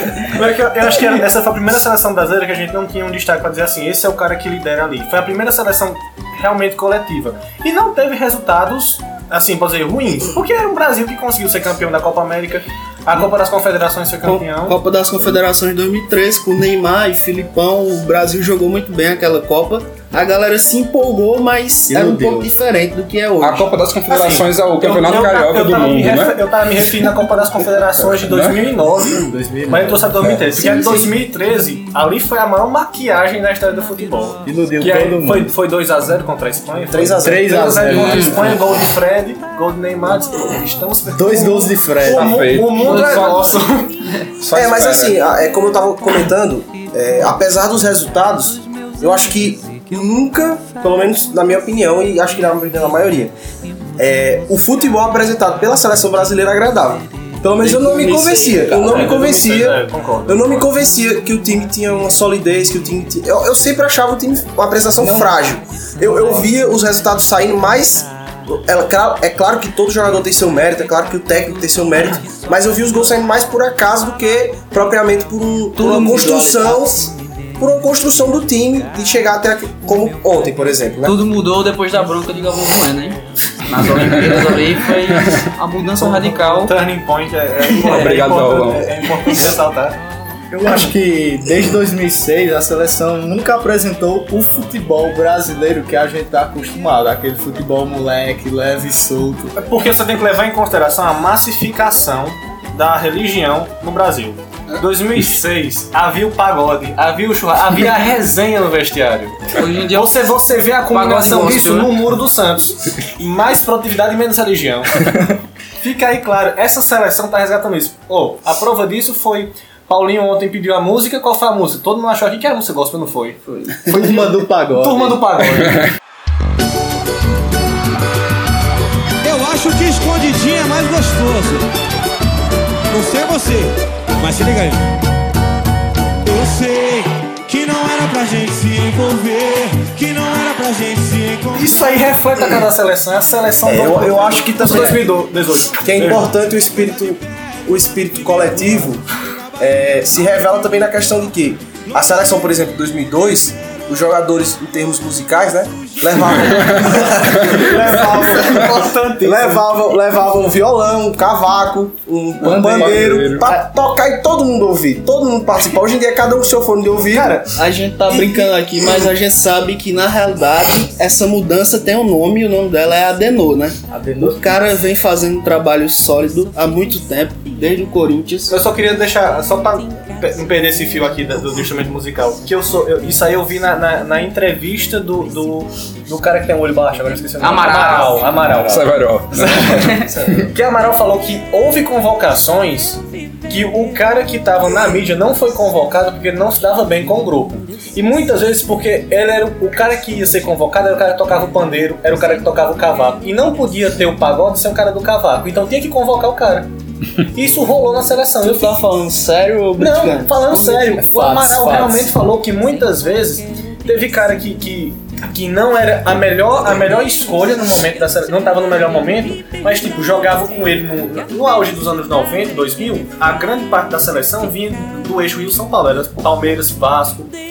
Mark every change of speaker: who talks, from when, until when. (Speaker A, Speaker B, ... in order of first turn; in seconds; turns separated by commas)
Speaker A: 0.2-14.8, Speaker B: 14.2-23.7, Speaker C: 21.9-22.5, Speaker D: 23.4-26.4, Speaker A: 24.1-43.9, Speaker D: 28.2-28.6, Speaker C: 29.3-30.0, Speaker B: 30.6-31.0, Speaker C: 34.4-35.5, Speaker E: 36.9-38.4, Speaker C: 37.2-38.6, Speaker C: 41.1-42.4, Speaker D: 42.1-43.5, Speaker F: 42.8-43.3, Speaker D: 44.4-45.2, Speaker E: 44.5-53.3, Speaker E: 54.0-81.2, Speaker C: 57.6-59.1, Speaker A: 58.7-60.7, Speaker C: 65.0-65.3, Speaker F: 75.8-76.8, Speaker F: 81.0-86.8, Speaker D: 84.0-85.5, Speaker A: 86.0-90.0, Speaker D: 87.8-88.9, Speaker C: 90.5-99.5, Speaker A: 99.6-123.4, Speaker F: 109.5-110.4, Speaker F: 110.9-111.9, Speaker C: 123.8-125.2, Speaker A: 123.9-124.2, Speaker A: 124.7-125.9, Speaker G: 129.2-131.6, Speaker G: 132.9-134.9, Speaker G: 136.2-142.1, Speaker A: 141.5-146.3, Speaker E: 143.7-145.1, Speaker E: 145.8-149.0, Speaker E: 149.6-158.6, Speaker D: 156.4-157.7, Speaker A: 157.0-159.6, Speaker E: 159.2-167.4, Speaker C: 162.4-163.6, Speaker D: 162.5-163.5, Speaker A: 167.1-167.5, Speaker B: 167.5-178.6, Speaker A: 168.1-168.5, Speaker C: 173.9-174.5, Speaker A: 178.5-206.7, Speaker F: 187.4-188.3, Speaker D: 188.5-190.5, Speaker A: 207.3-208.8, Speaker B: 208.4-211.0, Speaker A: 209.8-227.3, Speaker C: 211.0-212.1